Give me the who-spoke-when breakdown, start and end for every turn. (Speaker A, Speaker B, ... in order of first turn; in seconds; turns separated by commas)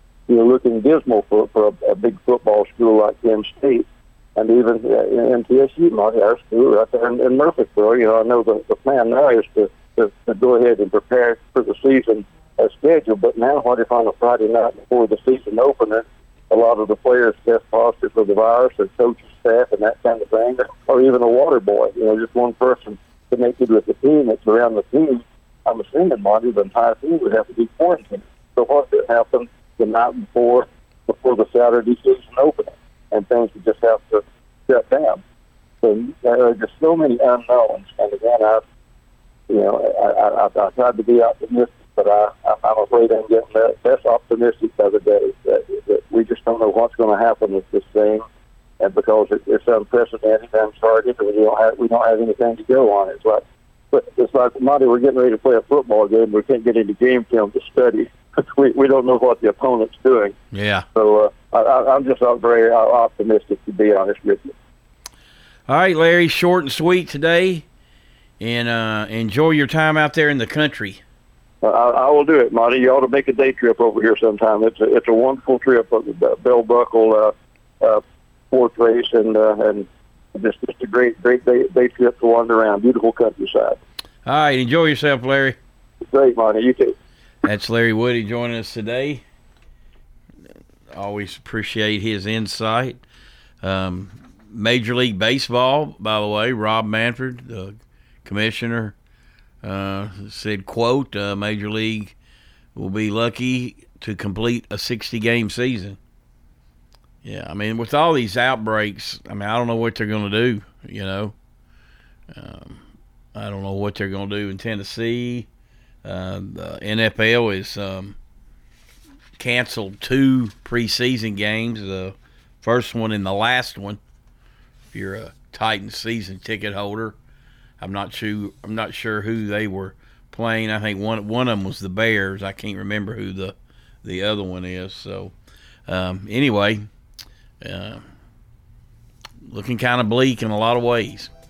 Speaker A: 0.3-35.2, Speaker A: 35.8-38.6, Speaker A: 39.5-48.2, Speaker A: 48.8-60.3, Speaker B: 60.5-60.9, Speaker A: 60.9-64.5, Speaker B: 65.7-67.7, Speaker B: 68.4-71.0, Speaker A: 71.6-83.8, Speaker B: 84.2-85.6, Speaker A: 86.1-86.9, Speaker B: 87.4-89.2, Speaker B: 90.9-93.0, Speaker B: 93.6-98.9, Speaker B: 99.6-102.1, Speaker B: 102.7-106.0, Speaker B: 107.2-111.3, Speaker B: 112.3-112.8, Speaker B: 113.3-115.5, Speaker B: 116.0-118.2, Speaker B: 119.4-124.0, Speaker B: 124.9-127.2, Speaker B: 127.8-135.3, Speaker B: 135.9-136.9, Speaker B: 137.6-138.0, Speaker B: 139.4-141.3